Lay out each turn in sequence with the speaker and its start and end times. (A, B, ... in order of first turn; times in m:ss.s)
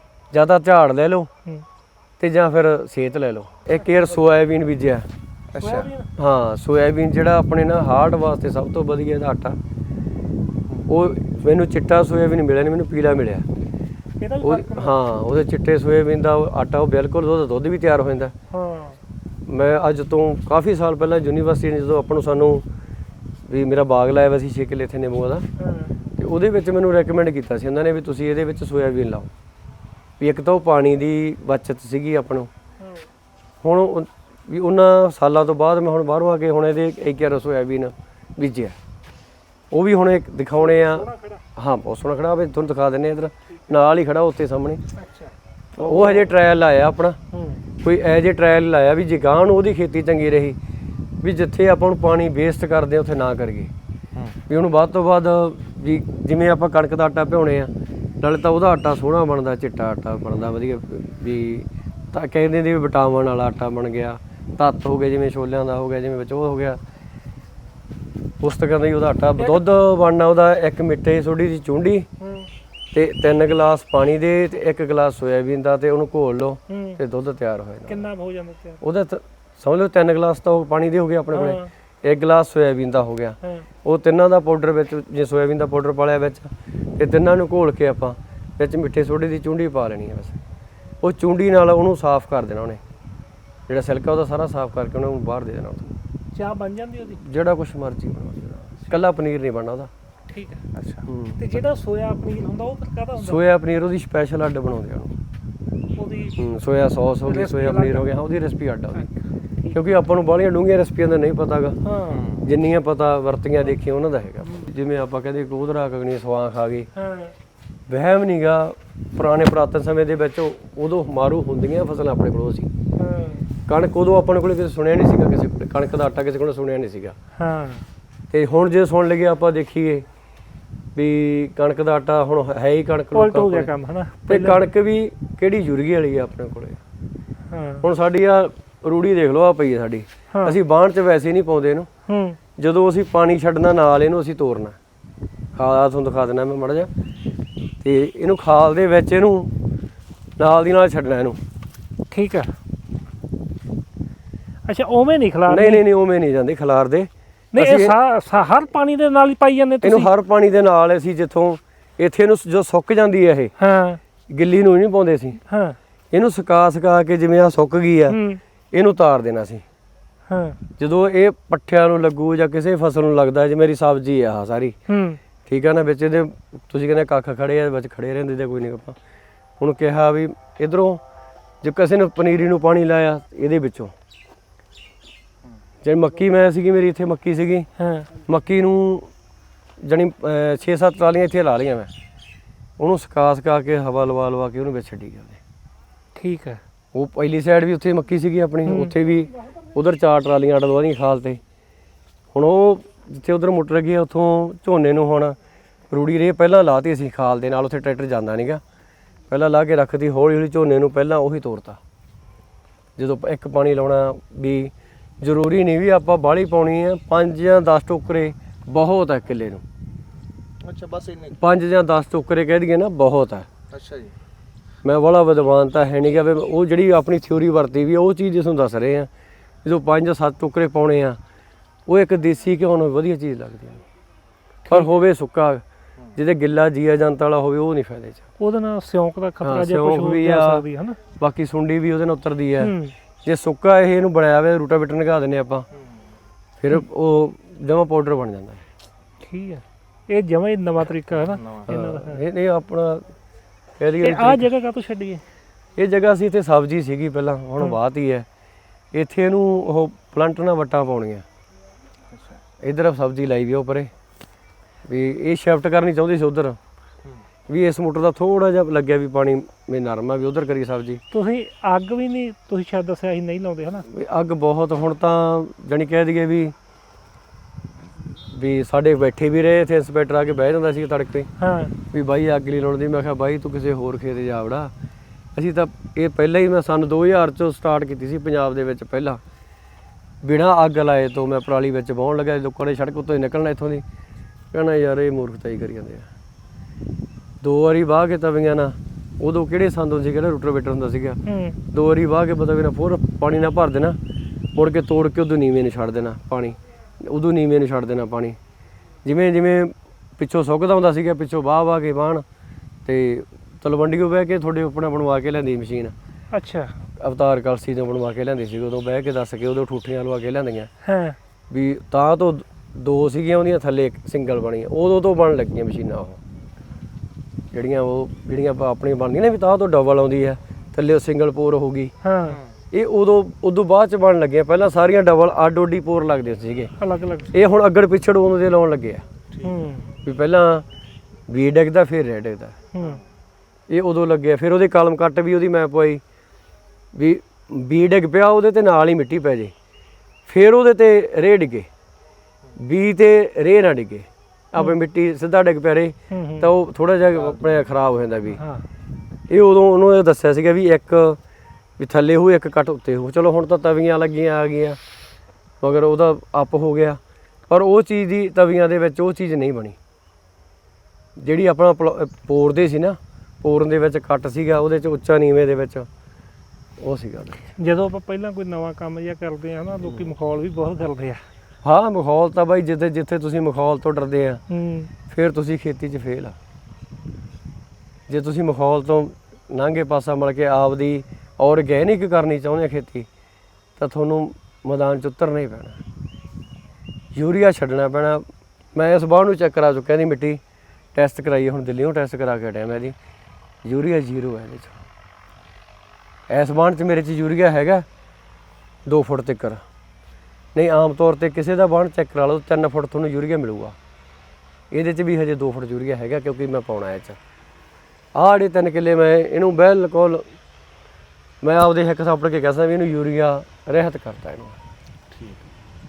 0:00.3-0:01.3 A
0:02.2-0:05.1 A
0:05.5-0:05.9 B
0:05.6-0:06.1 C
0:06.2-0:09.6 A
0:10.9-0:13.5 A
0:14.2-0:15.0 C
0:14.4-0:18.3 A
0:18.5-0:19.0 C
0:19.5-0:22.6 A
0:23.5-0:25.5 A
0:25.6-0:25.9 C
0:26.2-0:29.3 A
0:30.2-0:32.5 A
0:33.6-0:38.8 A
0:39.7-0:44.8 A
0:40.7-0:41.4 C
0:45.1-0:46.3 C
0:45.8-0:47.2 A
0:47.3-0:47.6 C
0:47.8-0:50.6 A
0:51.2-0:53.7 A
0:54.5-1:06.8 A
1:08.4-1:12.1 A
1:12.2-1:12.5 C
1:12.9-1:18.1 A
1:16.7-1:17.0 C
1:17.9-1:18.8 C
1:18.8-1:30.4 A
1:21.3-1:21.7 C
1:31.0-1:32.8 A
1:33.7-1:35.9 A
1:36.3-1:37.2 C
1:37.0-1:39.9 A
1:40.3-1:40.6 C
1:40.8-1:41.1 B
1:41.1-1:41.4 A
1:41.4-1:43.4 C
1:43.2-1:45.2 A
1:46.0-1:46.4 C
1:46.4-1:49.1 A
1:47.2-1:48.2 C
1:49.0-1:49.8 C
1:49.7-1:51.8 A
1:51.8-1:52.2 C
1:52.1-1:52.5 B
1:52.4-1:56.9 A
1:57.0-1:57.3 C
1:57.9-2:02.7 A
2:03.0-2:03.5 C
2:03.7-2:07.2 A
2:07.4-2:07.8 C
2:08.3-2:10.0 A
2:11.0-2:13.7 A
2:13.1-2:14.6 C
2:14.3-2:16.8 A
2:17.5-2:17.9 C
2:17.8-2:21.9 A
2:20.3-2:20.6 C
2:22.1-2:22.4 C
2:22.6-2:24.8 A
2:25.6-2:26.9 A
2:27.8-2:29.5 A
2:30.4-2:31.4 A
2:32.1-2:32.5 C
2:34.7-2:35.8 C
2:35.5-2:38.0 A
2:37.5-2:40.1 C
2:39.8-2:43.5 A
2:43.6-2:44.0 C
2:44.3-2:45.4 A
2:45.5-2:45.8 C
2:46.1-2:48.2 A
2:48.1-2:48.4 C
2:48.7-2:49.6 A
2:50.3-2:50.6 C
2:50.8-2:54.8 A
2:54.9-2:55.2 C
2:55.5-2:59.0 A
2:59.6-3:01.0 A
3:01.6-3:03.9 A
3:05.8-3:07.7 A
3:07.8-3:08.1 C
3:08.2-3:09.1 A
3:09.8-3:11.9 A
3:12.8-3:15.4 A
3:16.2-3:16.6 C
3:16.9-3:21.4 A
3:18.6-3:18.9 C
3:22.3-3:25.4 A
3:25.9-3:28.6 A
3:29.3-3:31.8 A
3:33.0-3:39.6 A
3:40.6-3:41.4 B
3:41.4-3:43.5 A
3:43.7-3:44.1 B
3:44.8-3:49.1 A
3:49.6-3:51.2 A
3:51.9-3:53.8 A
3:54.7-3:55.6 A
3:56.2-3:58.2 A
3:58.4-4:01.0 C
3:59.4-4:00.6 A
4:01.2-4:02.7 A
4:02.6-4:02.9 C
4:03.2-4:05.7 A
4:06.6-4:08.6 A
4:09.2-4:12.2 C
4:11.2-4:11.7 B
4:11.7-4:13.1 A
4:13.8-4:14.5 A
4:14.0-4:15.2 C
4:15.8-4:18.3 A
4:18.9-4:21.2 A
4:22.1-4:22.4 B
4:22.6-4:23.9 A
4:24.9-4:26.6 A
4:27.5-4:31.0 A
4:31.1-4:33.9 C
4:33.9-4:36.6 A
4:38.3-4:41.3 A
4:41.4-4:41.8 C
4:41.9-4:44.7 A
4:45.4-4:49.2 A
4:50.2-4:53.8 A
4:54.5-4:56.1 A
4:57.4-5:04.0 A
5:01.2-5:01.6 C
5:04.6-5:08.4 A
5:09.0-5:12.2 A
5:12.8-5:15.9 A
5:16.3-5:16.8 C
5:17.0-5:20.7 A
5:20.8-5:21.2 C
5:21.5-5:26.2 A
5:27.5-5:31.9 A
5:32.0-5:32.4 C
5:32.3-5:32.5 B
5:32.7-5:36.7 A
5:36.8-5:37.3 C
5:37.3-5:39.0 A
5:39.3-5:39.6 B
5:39.4-5:39.9 C
5:40.0-5:40.7 A
5:41.3-5:42.6 A
5:42.7-5:43.0 C
5:43.7-5:46.0 A
5:46.9-5:49.5 A
5:50.3-5:51.7 A
5:52.6-5:58.4 A
5:56.1-5:56.5 C
5:57.3-5:57.6 B
5:58.4-5:58.7 C
5:59.3-6:01.2 A
6:01.8-6:04.8 A
6:05.6-6:09.8 A
6:11.2-6:15.9 A
6:16.8-6:17.4 A
6:17.6-6:21.2 C
6:21.6-6:24.4 A
6:24.5-6:24.9 C
6:25.1-6:26.4 A
6:28.1-6:33.1 A
6:33.8-6:35.8 A
6:37.1-6:38.2 A
6:38.8-6:40.4 A
6:40.9-6:43.0 A
6:43.6-6:44.8 A
6:46.3-6:47.9 A
6:48.9-6:49.6 A
6:50.6-6:53.8 A
6:54.7-6:57.2 A
6:58.2-7:00.3 A
7:01.4-7:04.6 A
7:05.1-7:05.4 B